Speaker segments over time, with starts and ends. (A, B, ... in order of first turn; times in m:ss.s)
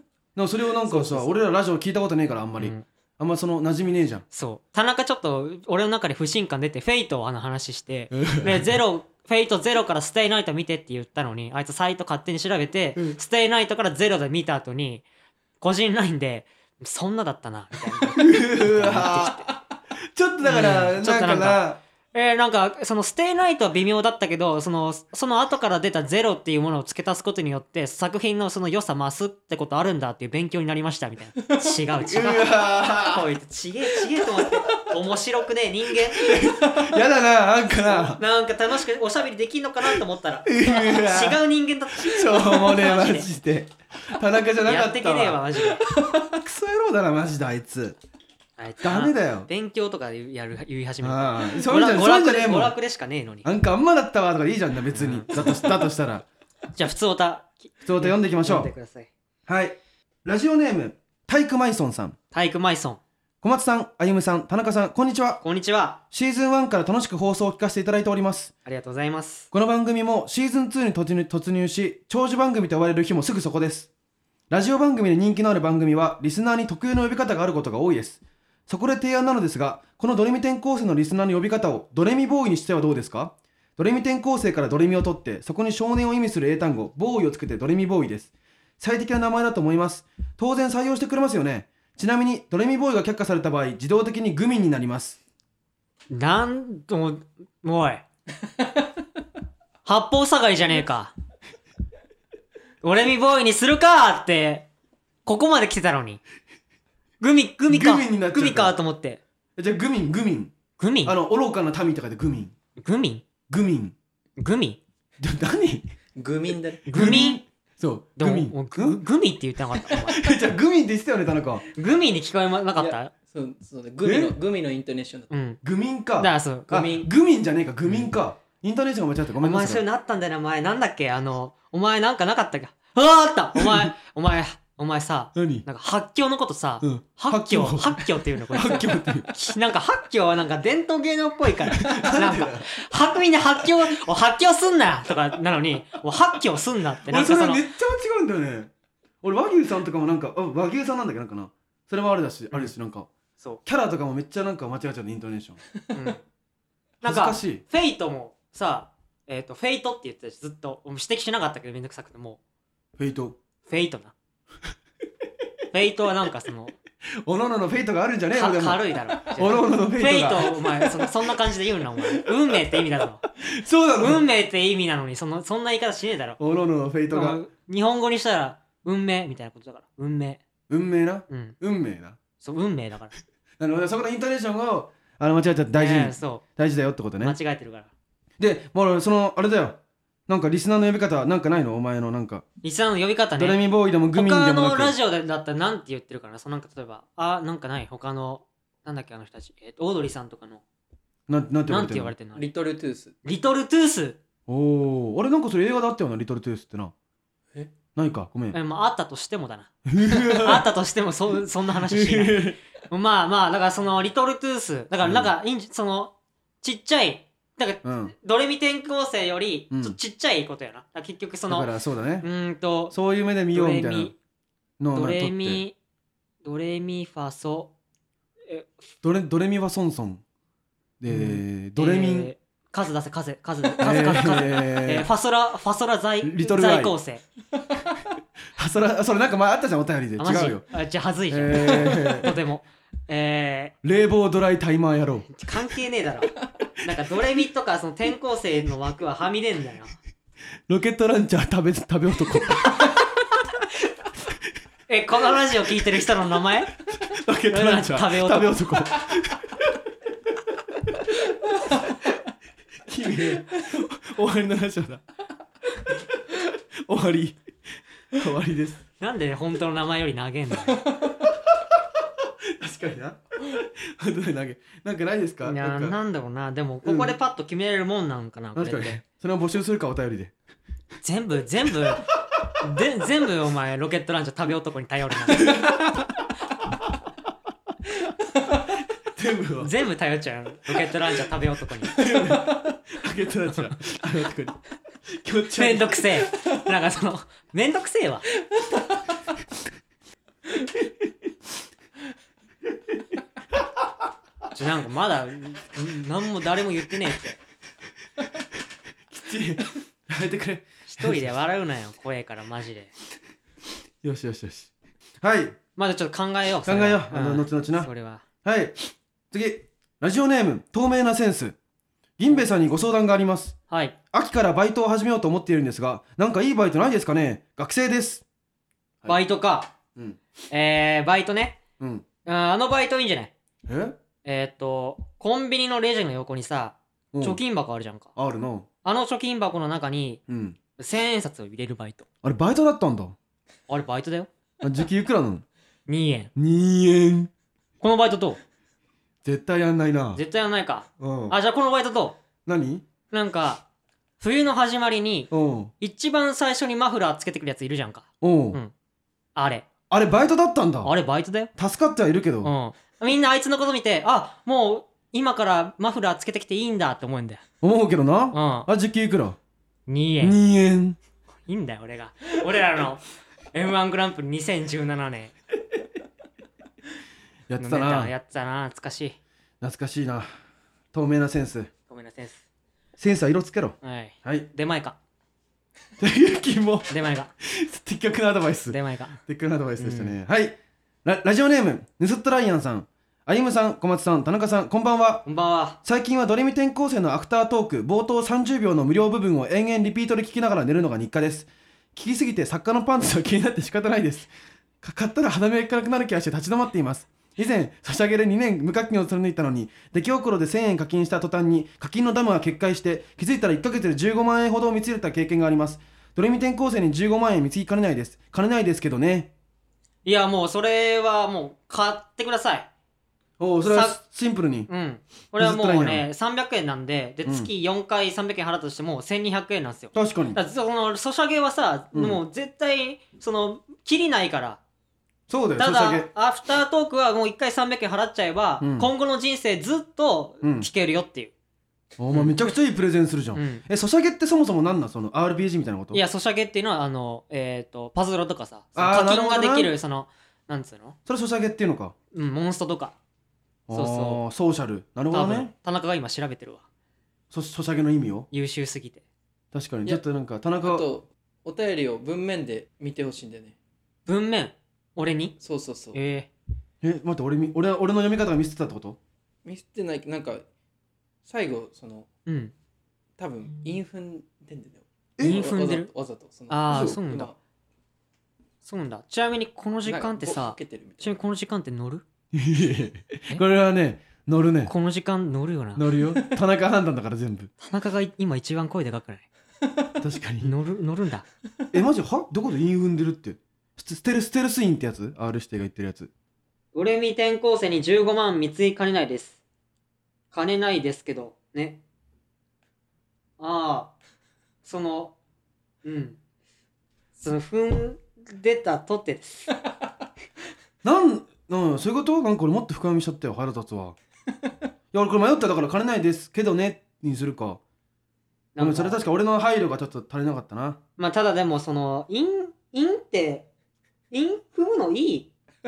0:00.4-0:04.2 A
0:00.9-0:01.3 B
0:02.6-0:02.8 B
0:04.3-0:15.0 B
0:08.1-0:08.7 A
0:15.6-0:19.6 B
0:18.2-0:19.4 A
0:20.1-0:21.8 A
0:20.4-0:36.4 B
0:32.0-0:33.2 A
0:34.2-0:34.6 A
0:36.1-0:38.2 A
0:38.0-0:43.3 B
0:40.5-0:41.4 A
0:41.9-0:45.6 A
0:44.6-0:45.8 B
0:46.1-0:48.0 A
0:48.6-0:53.5 B
0:48.8-0:49.5 A
0:51.0-0:52.8 A
0:53.4-0:56.2 A
0:54.9-0:55.9 B
0:56.7-0:59.1 B
0:57.8-0:58.7 A
0:59.5-1:02.2 A
1:02.3-1:03.0 B
1:03.4-1:05.4 A
1:05.4-1:06.0 B
1:06.1-1:08.5 A
1:08.6-1:09.5 B
1:09.5-1:13.9 A
1:14.5-1:35.2 A
1:36.1-1:38.0 B
1:39.8-1:41.1 B
1:42.8-1:44.7 B
1:45.2-1:46.2 B
1:47.2-1:49.2 B
1:47.7-1:48.8 A
1:49.6-1:52.5 A
1:50.8-1:51.1 B
1:52.8-1:53.2 B
1:53.5-1:53.9 A
1:54.4-1:54.8 B
1:55.2-1:55.8 A
1:56.2-1:56.9 C
1:56.9-1:59.0 A
1:56.9-1:57.4 B
1:58.2-2:00.2 B
2:00.0-2:01.6 A
2:01.8-2:03.1 B
2:02.8-2:05.3 C
2:04.0-2:04.4 A
2:05.3-2:05.6 B
2:05.6-2:09.8 A
2:06.2-2:06.9 B
2:06.7-2:07.1 C
2:09.4-2:27.6 B
2:13.6-2:13.9 A
2:15.4-2:15.7 A
2:16.8-2:19.3 A
2:21.7-2:22.7 A
2:27.1-2:28.7 A
2:29.2-2:33.1 A
2:33.6-2:35.6 A
2:35.9-2:36.2 B
2:37.0-2:42.4 B
2:37.0-2:37.6 A
2:43.0-2:43.4 A
2:43.6-2:44.1 B
2:45.7-2:46.8 B
2:47.2-2:51.1 A
2:48.3-2:53.2 B
2:52.0-2:52.6 A
2:53.4-2:54.2 A
2:54.0-2:56.4 B
2:56.4-2:57.4 A
2:57.1-3:00.4 B
3:00.7-3:02.2 A
3:01.3-3:01.6 B
3:02.4-3:03.2 B
3:03.6-3:07.4 A
3:05.8-3:06.4 B
3:07.2-3:07.9 B
3:08.4-3:12.4 A
3:12.6-3:13.6 B
3:13.4-3:15.0 A
3:14.1-3:20.6 B
3:21.3-3:22.1 A
3:21.7-3:22.4 B
3:22.4-3:23.2 C
3:23.2-3:24.2 B
3:24.5-3:26.9 A
3:28.0-3:28.6 A
3:28.5-3:41.7 B
3:29.9-3:30.7 A
3:31.8-3:32.6 A
3:35.0-3:35.3 A
3:37.8-3:38.1 A
3:39.7-3:40.0 A
3:41.5-3:42.3 A
3:42.2-3:43.0 B
3:42.9-3:44.1 A
3:43.5-3:44.2 B
3:44.8-3:45.6 A
3:44.9-3:45.8 B
3:46.4-3:47.7 B
3:48.5-3:48.8 B
3:49.0-3:50.2 A
3:51.0-3:52.3 A
3:51.1-3:57.2 B
3:53.8-3:55.1 A
3:56.2-3:56.9 A
3:58.6-4:00.7 A
4:00.2-4:03.8 B
4:01.3-4:02.3 A
4:03.8-4:05.3 A
4:05.3-4:10.0 B
4:10.7-4:13.0 A
4:14.9-4:16.7 B
4:16.9-4:19.8 A
4:17.5-4:18.6 B
4:22.8-4:25.0 A
4:26.3-4:27.4 A
4:28.1-4:28.8 A
4:29.0-4:30.8 B
4:31.3-4:31.8 A
4:32.6-4:36.0 A
4:35.4-4:39.0 B
4:36.8-4:37.2 A
4:38.6-4:40.3 A
4:41.0-4:42.1 B
4:42.6-4:45.6 B
4:49.1-4:49.7 A
4:49.6-4:52.0 B
4:52.0-4:56.2 A
4:55.5-4:58.2 B
5:04.5-5:07.4 B
5:09.1-5:11.2 A
5:10.9-5:12.9 B
5:14.0-5:15.6 A
5:15.8-5:18.2 B
5:16.6-5:17.9 A
5:18.4-5:18.8 A
5:19.3-5:21.6 A
5:22.2-5:23.6 A
5:23.7-5:24.0 B
5:24.1-5:28.2 A
5:29.1-5:29.7 B
5:30.5-5:31.6 B
5:31.8-5:32.0 A
5:32.2-5:33.3 B
5:33.7-5:34.0 A
5:34.2-5:38.1 B
5:37.1-5:37.4 A
5:38.2-5:38.7 A
5:38.8-5:40.2 B
5:40.3-5:40.6 A
5:40.8-5:42.0 B
5:42.2-5:43.2 A
5:43.7-5:44.3 B
5:44.6-5:45.4 A
5:45.9-5:46.3 B
5:46.4-5:47.3 A
5:47.8-5:48.4 B
5:49.2-5:50.2 A
5:50.2-5:52.2 B
5:51.0-5:51.4 A
5:52.5-5:52.8 A
5:53.1-5:53.6 B
5:54.2-5:58.7 B
5:55.3-5:55.7 A
5:58.2-5:58.6 A
5:59.4-5:59.7 B
5:59.9-6:00.9 A
6:00.8-6:01.5 B
6:01.6-6:02.5 A
6:02.4-6:07.4 B
6:07.6-6:09.4 A
6:08.3-6:08.7 B
6:09.9-6:10.4 B
6:10.2-6:11.0 A
6:11.5-6:15.3 B
6:17.5-6:18.1 A
6:17.6-6:19.2 B
6:19.6-6:20.3 A
6:20.9-6:21.7 A
6:21.9-6:22.4 B
6:23.0-6:24.5 A
6:23.8-6:25.0 B
6:26.0-6:35.3 A
6:26.9-6:27.3 B
6:28.7-6:29.2 B
6:29.8-6:30.2 B
6:35.2-6:35.8 B
6:35.8-6:44.3 A
6:44.8-6:59.3 A
7:00.0-7:02.7 B
7:03.4-7:04.7 A
7:03.7-7:04.0 B
7:04.7-7:14.6 B
7:05.4-7:06.1 A
7:09.9-7:10.4 A
7:11.9-7:12.2 A
7:15.3-7:16.1 A
7:15.6-7:21.3 B
7:18.6-7:18.9 A
7:20.4-7:20.7 A
7:22.0-7:26.0 A
7:22.1-7:22.4 B
7:23.3-7:23.6 B
7:25.9-7:31.0 B
7:28.8-7:29.7 A
7:31.1-7:31.9 A
7:32.1-7:33.0 B
7:33.7-7:35.5 A
7:33.7-7:34.2 B
7:35.1-7:36.6 B
7:37.3-7:38.3 A
7:38.3-7:39.0 B
7:39.5-7:40.9 A
7:40.6-7:43.6 C
7:44.1-7:45.4 B
7:45.4-7:46.0 C
7:45.9-7:46.3 B
7:46.8-7:49.0 A
7:49.4-7:50.4 C
7:51.2-7:52.1 C
7:52.3-7:52.5 B
7:53.2-7:57.4 C
7:55.2-7:55.9 B
7:56.5-7:57.3 B
7:56.7-7:57.0 A
7:58.6-8:02.0 B
7:59.8-8:01.2 C
8:02.3-8:04.7 A
8:04.7-8:05.8 B
8:05.8-8:07.5 A
8:07.6-8:09.3 B
8:10.0-8:10.5 A
8:10.4-8:11.2 B
8:11.7-8:16.1 A
8:16.7-8:19.4 B
8:20.3-8:21.8 B
8:23.4-8:23.9 B
8:24.6-8:25.2 B
8:25.8-8:26.2 B
8:27.2-8:29.5 B
8:30.8-8:34.0 A
8:34.9-8:37.6 A
8:38.6-8:39.0 B
8:38.6-8:40.8 A
8:41.0-8:43.5 B
8:44.1-8:45.3 B